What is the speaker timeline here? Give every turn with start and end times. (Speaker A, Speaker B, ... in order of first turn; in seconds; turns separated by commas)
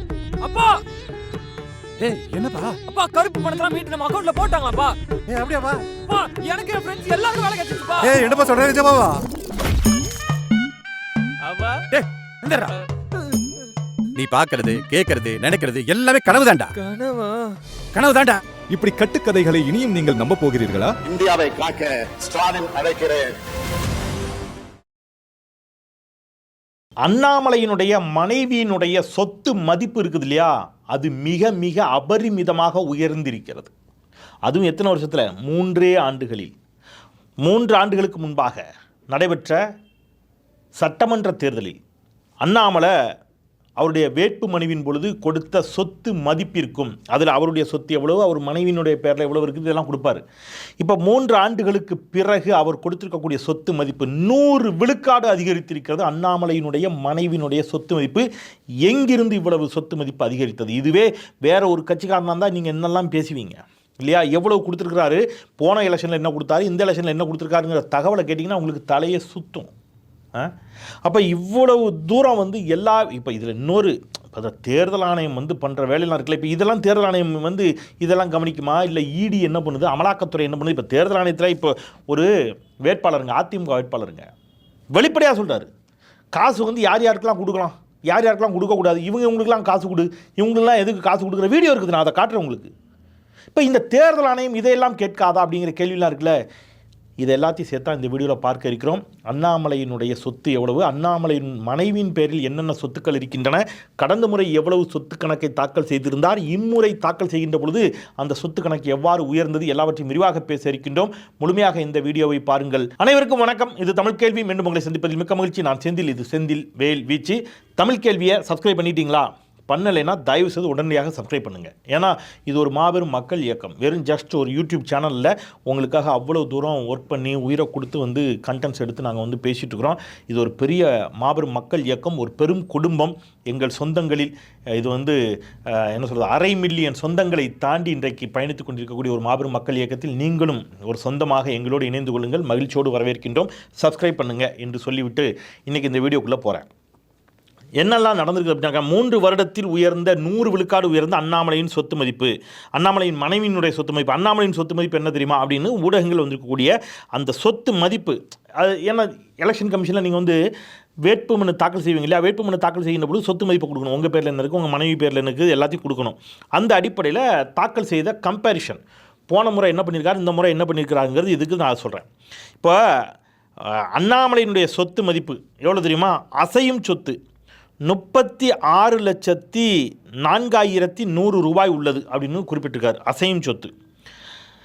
Speaker A: 0.4-0.8, Speaker B: 2.0-2.8, Speaker A: 2.9-5.0, Speaker B: 5.3-5.8, Speaker A: 6.0-8.3, Speaker B: 8.0-9.2, Speaker A: 11.5-11.8, Speaker B: 11.9-12.7, Speaker B: 14.1-16.8, Speaker A: 16.8-17.5, Speaker B: 17.9-18.4, Speaker C: 18.7-20.9, Speaker D: 21.0-23.3, Speaker E: 27.0-33.7, Speaker E: 34.5-36.5, Speaker E: 37.4-39.6, Speaker E: 40.8-41.8, Speaker E: 42.4-42.9, Speaker E: 43.8-50.2, Speaker E: 50.8-58.3, Speaker E: 58.8-69.7, Speaker E: 71.0-82.3, Speaker E: 82.8-84.2, Speaker E: 84.9-85.7, Speaker E: 86.3-92.7, Speaker E: 93.5-96.3, Speaker E: 97.2-135.2, Speaker E: 135.7-146.7, Speaker E: 147.8-160.4, Speaker E: 161.0-172.1, Speaker E: 173.7-177.2, Speaker E: 177.8-179.7, Speaker E: 180.2-183.7